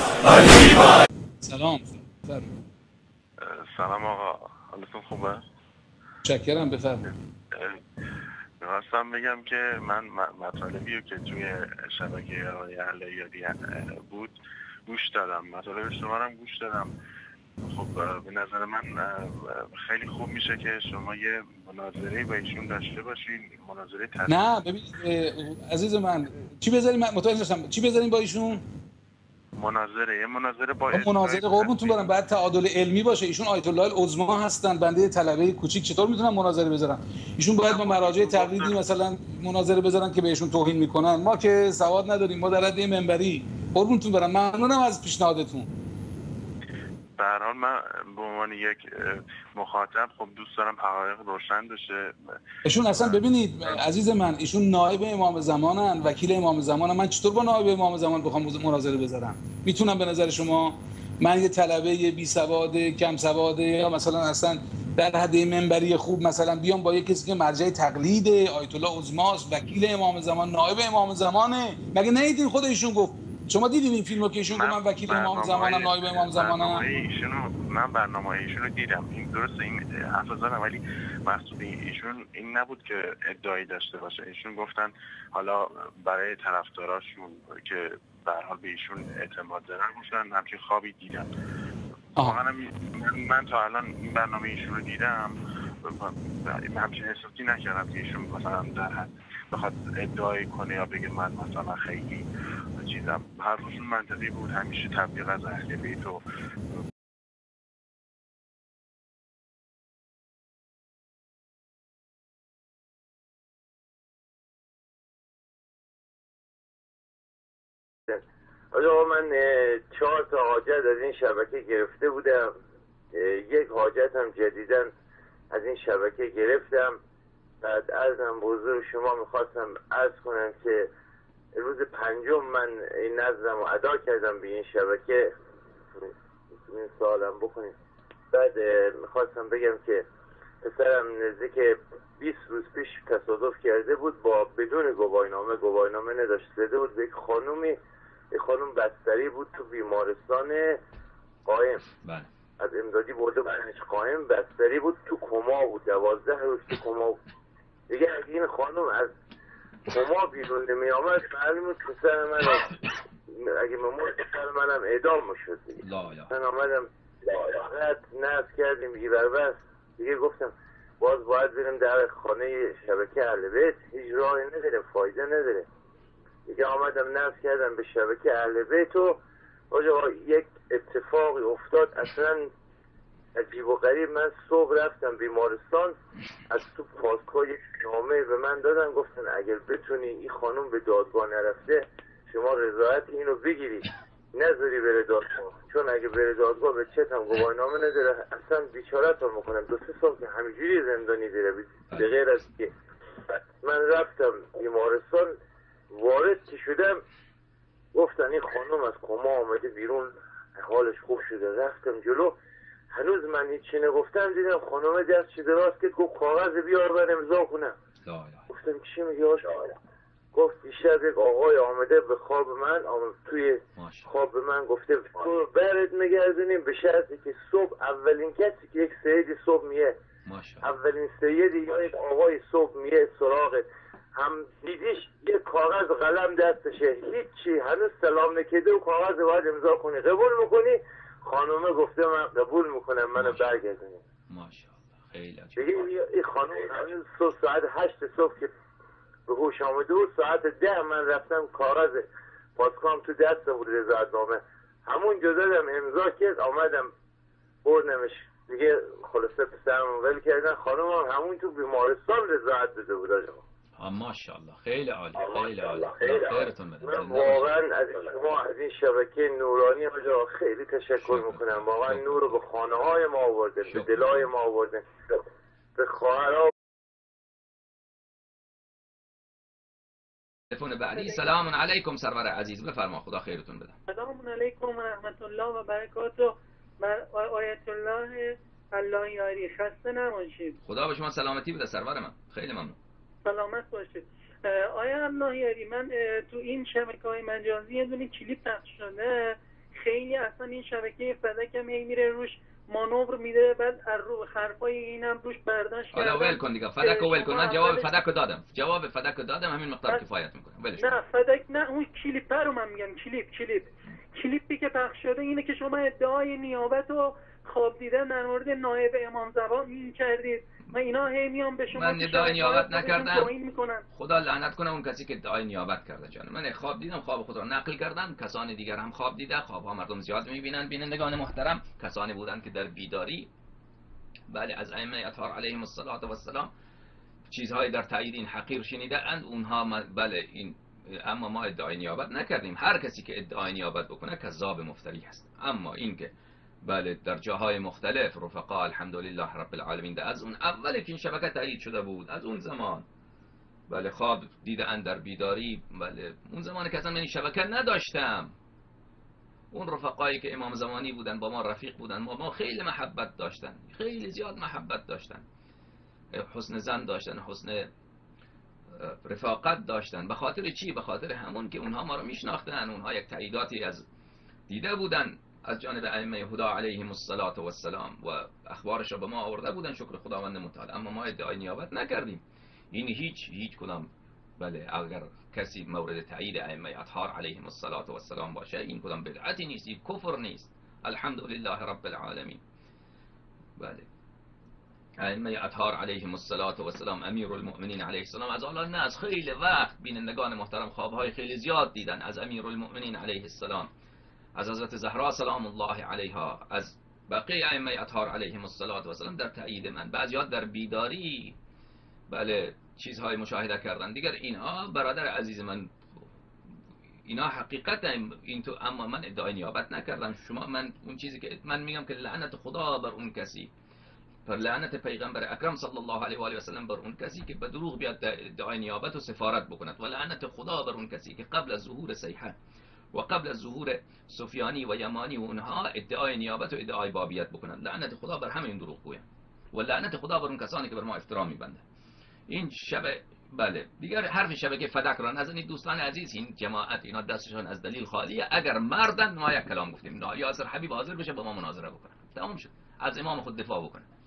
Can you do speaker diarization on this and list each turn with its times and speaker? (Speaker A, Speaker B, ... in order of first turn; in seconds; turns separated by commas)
Speaker A: 1.4-2.5, Speaker B: 3.4-5.4, Speaker A: 6.2-7.0, Speaker B: 7.5-7.8, Speaker B: 8.6-14.3, Speaker B: 14.9-16.9, Speaker B: 17.6-24.4, Speaker A: 24.3-28.6, Speaker B: 29.6-32.1, Speaker A: 30.9-45.7, Speaker B: 37.7-38.8, Speaker B: 47.2-52.1, Speaker A: 52.6-76.8, Speaker B: 52.9-53.2, Speaker B: 74.5-91.3, Speaker B: 92.1-102.2, Speaker B: 102.8-106.2, Speaker C: 118.1-122.5, Speaker C: 123.1-124.9, Speaker C: 125.5-127.0, Speaker C: 127.6-130.9, Speaker C: 131.5-135.3, Speaker C: 136.7-137.7, Speaker C: 138.3-140.0, Speaker C: 140.6-147.8, Speaker C: 148.3-150.8, Speaker C: 151.4-151.8, Speaker D: 152.0-152.3, Speaker C: 152.6-157.2, Speaker C: 157.9-159.1, Speaker C: 159.9-175.7, Speaker D: 165.8-166.3, Speaker C: 176.5-179.2, Speaker C: 179.7-182.5, Speaker C: 183.3-185.9, Speaker C: 186.5-202.7, Speaker C: 203.6-205.3, Speaker C: 205.9-207.0, Speaker C: 207.9-212.3, Speaker C: 212.9-217.7, Speaker D: 218.0-218.4, Speaker C: 218.5-219.8, Speaker C: 220.3-229.9, Speaker D: 223.8-224.1, Speaker D: 230.2-230.7, Speaker C: 230.6-244.0, Speaker D: 243.2-243.6, Speaker D: 244.3-245.8, Speaker C: 245.6-248.5, Speaker C: 249.3-256.9, Speaker C: 257.6-263.4, Speaker D: 263.8-267.5, Speaker C: 265.2-274.8, Speaker D: 271.0-272.4, Speaker D: 273.6-274.3, Speaker C: 275.8-276.5, Speaker D: 280.5-283.8, Speaker E: 280.9-281.2, Speaker E: 283.9-290.6, Speaker D: 290.6-292.8, Speaker E: 293.2-307.9, Speaker D: 305.9-311.0, Speaker E: 310.8-323.8, Speaker D: 321.7-323.3, Speaker D: 323.9-333.3, Speaker D: 334.3-336.5, Speaker D: 337.3-346.1, Speaker D: 346.6-352.8, Speaker D: 353.7-358.3, Speaker D: 359.5-365.2, Speaker D: 366.1-367.7, Speaker D: 368.8-373.8, Speaker D: 374.5-392.4, Speaker D: 393.6-393.9, Speaker D: 395.0-403.7, Speaker D: 404.4-411.4, Speaker D: 412.1-415.7, Speaker D: 417.1-423.5, Speaker D: 424.2-432.4, Speaker D: 432.9-441.6, Speaker D: 442.3-453.9